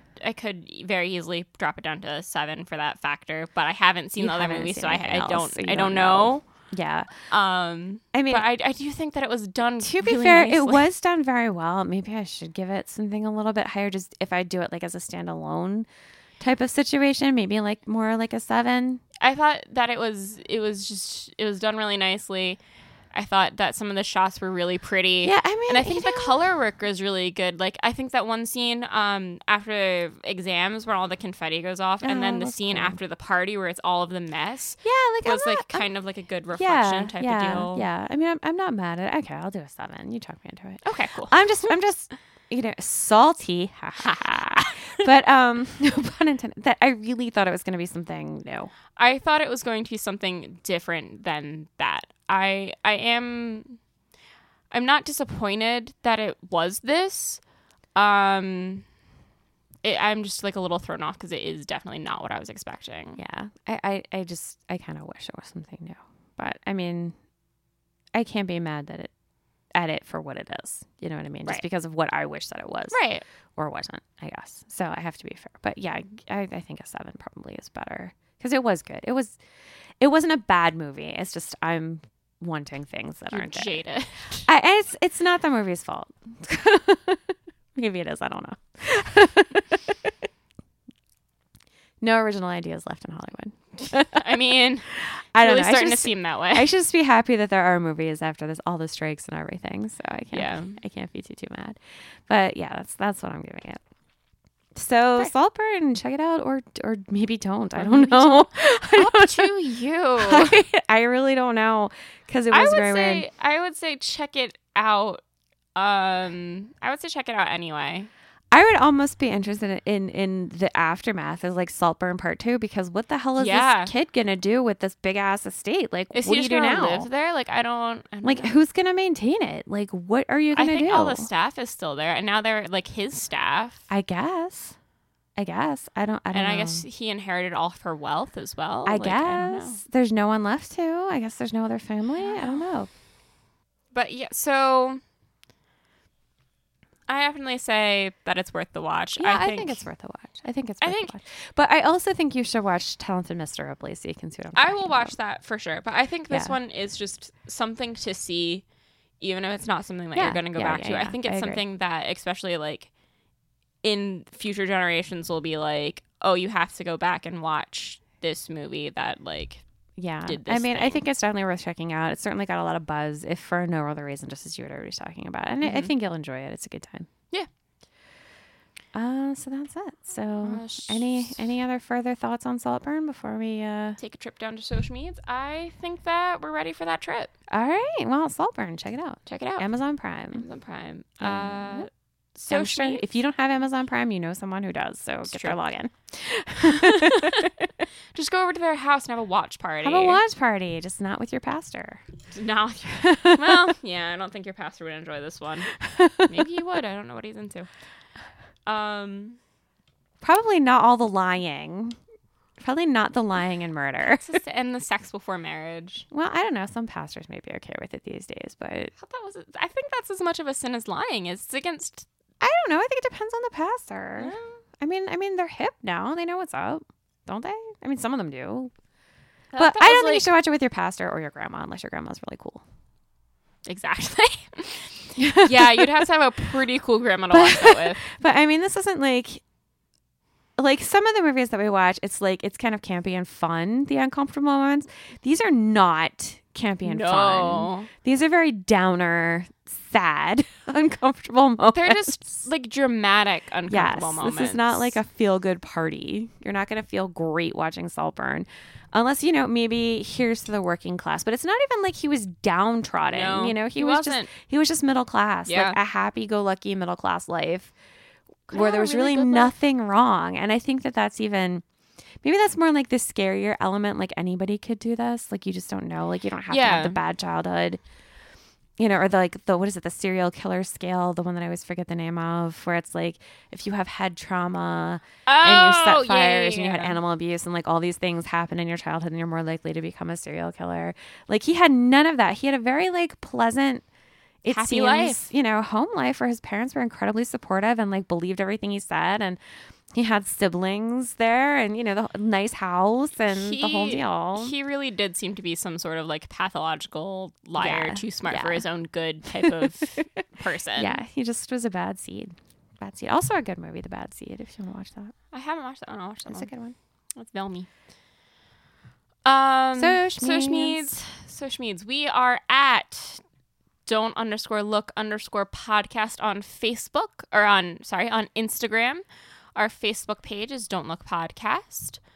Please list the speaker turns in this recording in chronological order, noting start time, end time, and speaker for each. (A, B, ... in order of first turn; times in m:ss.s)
0:00.2-0:06.4 A
0:04.2-0:07.1 B
0:07.3-0:10.8 A
0:08.1-0:08.4 B
0:09.8-0:15.9 B
0:16.4-0:19.0 B
0:19.2-0:22.6 A
0:23.1-0:37.8 A
0:25.2-0:26.4 B
0:32.0-0:33.0 B
0:34.8-0:35.8 B
0:36.5-0:48.7 B
0:40.8-0:41.7 A
0:44.0-0:45.0 A
0:49.0-0:53.8 A
0:54.7-0:57.4 A
0:58.0-0:58.8 A
0:59.8-1:03.2 A
1:03.2-1:07.2 B
1:08.1-1:09.1 B
1:09.7-1:13.0 B
1:12.9-1:13.2 A
1:13.6-1:19.4 B
1:20.0-1:23.8 B
1:23.3-1:24.4 A
1:24.5-1:27.2 B
1:27.7-1:30.1 B
1:32.0-1:34.2 B
1:34.0-1:36.7 A
1:35.3-1:43.8 B
1:40.3-1:40.8 A
1:44.7-1:49.5 B
1:47.8-1:50.6 A
1:50.2-1:53.2 B
1:52.5-1:55.2 A
1:55.8-1:58.1 A
1:58.5-2:07.1 B
2:03.4-2:03.9 A
2:06.1-2:08.5 A
2:08.2-2:11.3 B
2:10.5-2:13.8 A
2:13.9-2:14.8 B
2:15.4-2:16.8 B
2:16.3-2:19.8 A
2:18.8-2:22.9 B
2:22.2-2:22.7 A
2:23.9-2:25.0 A
2:27.1-2:29.8 A
2:29.2-2:35.2 B
2:30.8-2:31.1 A
2:34.5-2:38.6 A
2:36.3-2:36.5 B
2:39.2-2:42.9 A
2:40.1-2:41.6 B
2:43.8-2:49.6 A
2:50.0-2:57.1 B
2:50.2-2:51.0 A
2:55.6-2:55.9 A
2:58.9-3:04.0 B
3:00.4-3:01.4 A
3:04.0-3:07.3 A
3:07.5-3:10.4 B
3:09.3-3:09.7 A
3:10.3-3:13.0 A
3:11.2-3:11.9 B
3:12.5-3:17.5 B
3:15.3-3:15.6 A
3:16.7-3:17.5 A
3:18.1-3:20.2 A
3:19.8-3:22.0 B
3:22.3-3:27.7 A
3:23.0-3:23.6 B
3:26.0-3:26.3 B
3:28.6-3:29.4 A
3:30.2-3:32.0 B
3:32.6-3:34.3 B
3:34.1-3:36.0 A
3:36.1-3:38.9 B
3:39.0-3:42.0 A
3:42.4-3:48.7 B
3:44.2-3:44.6 A
3:49.5-3:50.2 A
3:49.6-3:52.6 B
3:53.6-3:58.1 A
3:55.2-3:56.1 B
3:57.3-3:59.4 B
4:00.6-4:12.1 B
4:06.8-4:07.9 A
4:11.7-4:14.9 A
4:13.7-4:27.7 B
4:23.1-4:24.3 A
4:25.5-4:25.8 A
4:28.5-4:29.5 A
4:28.5-4:31.6 B
4:32.2-4:37.8 B
4:36.5-4:37.0 A
4:38.8-4:53.8 B
4:45.2-4:47.0 A
4:54.4-4:59.4 B
4:54.5-4:55.3 A
4:59.9-5:04.5 B
5:03.3-5:11.0 A
5:07.6-5:08.6 B
5:09.4-5:10.0 B
5:10.8-5:15.1 B
5:15.3-5:16.5 A
5:16.2-5:16.7 B
5:17.2-5:17.7 A
5:19.2-5:23.2 A
5:19.8-5:20.9 B
5:23.8-5:29.0 A
5:29.6-5:32.0 A